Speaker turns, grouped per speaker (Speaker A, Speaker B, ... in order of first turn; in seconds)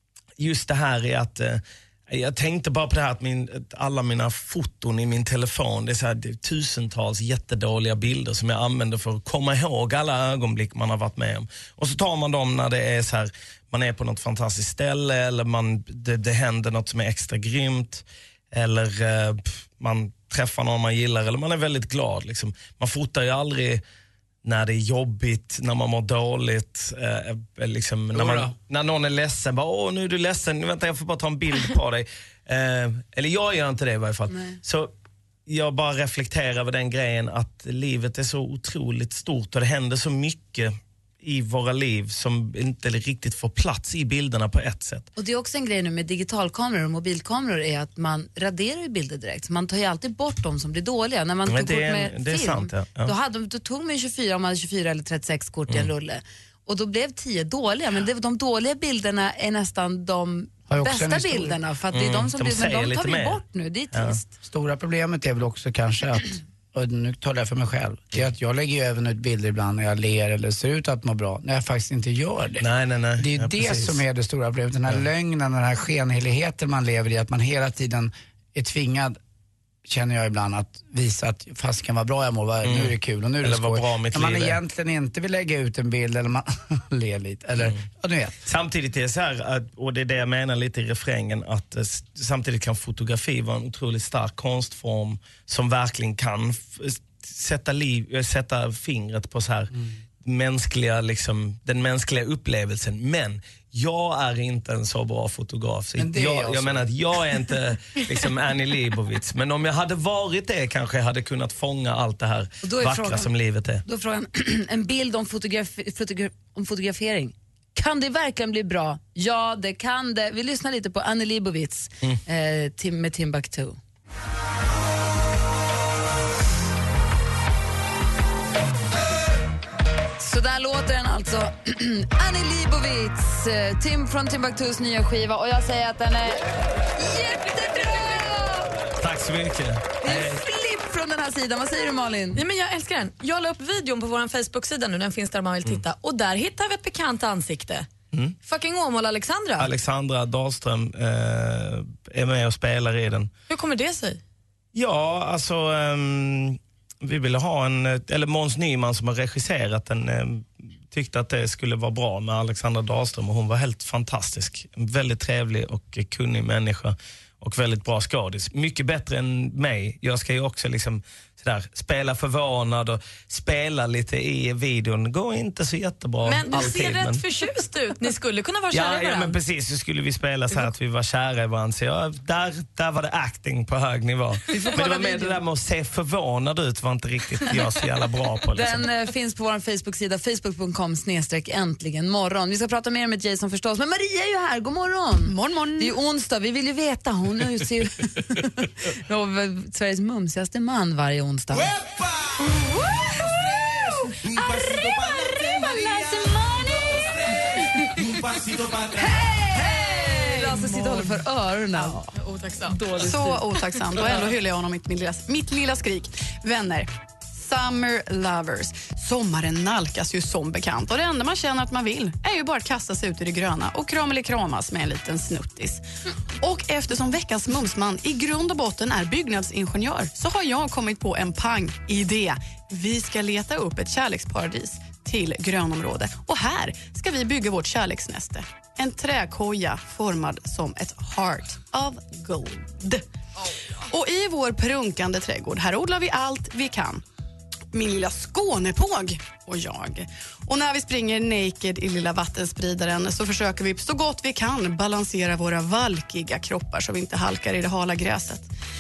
Speaker A: 0.4-23.8, 24.4-34.9, 35.5-45.1, 51.5-53.1, 61.9-63.4, 63.9-64.2, 72.6-74.0, 82.6-84.6, 88.5-113.8, 138.9-140.4, 149.6-153.3, 154.7-177.2, 178.7-188.9
Speaker B: 28.1-28.5, 60.7-61.6, 64.4-79.2, 79.8-88.4, 106.0-106.9
Speaker C: 34.3-34.6, 45.2-64.3, 112.6-113.3, 113.8-123.8, 130.2-136.4, 137.0-138.7, 140.0-142.4, 184.5-185.3, 188.5-201.7, 204.3-206.6, 208.9-212.1
Speaker D: 142.3-147.9, 148.4-149.7, 153.5-154.2, 176.2-179.4, 184.5-184.9, 210.7-211.1, 211.8-212.9
Speaker E: 212.9-225.8, 226.4-243.0, 243.9-247.0, 247.7-258.5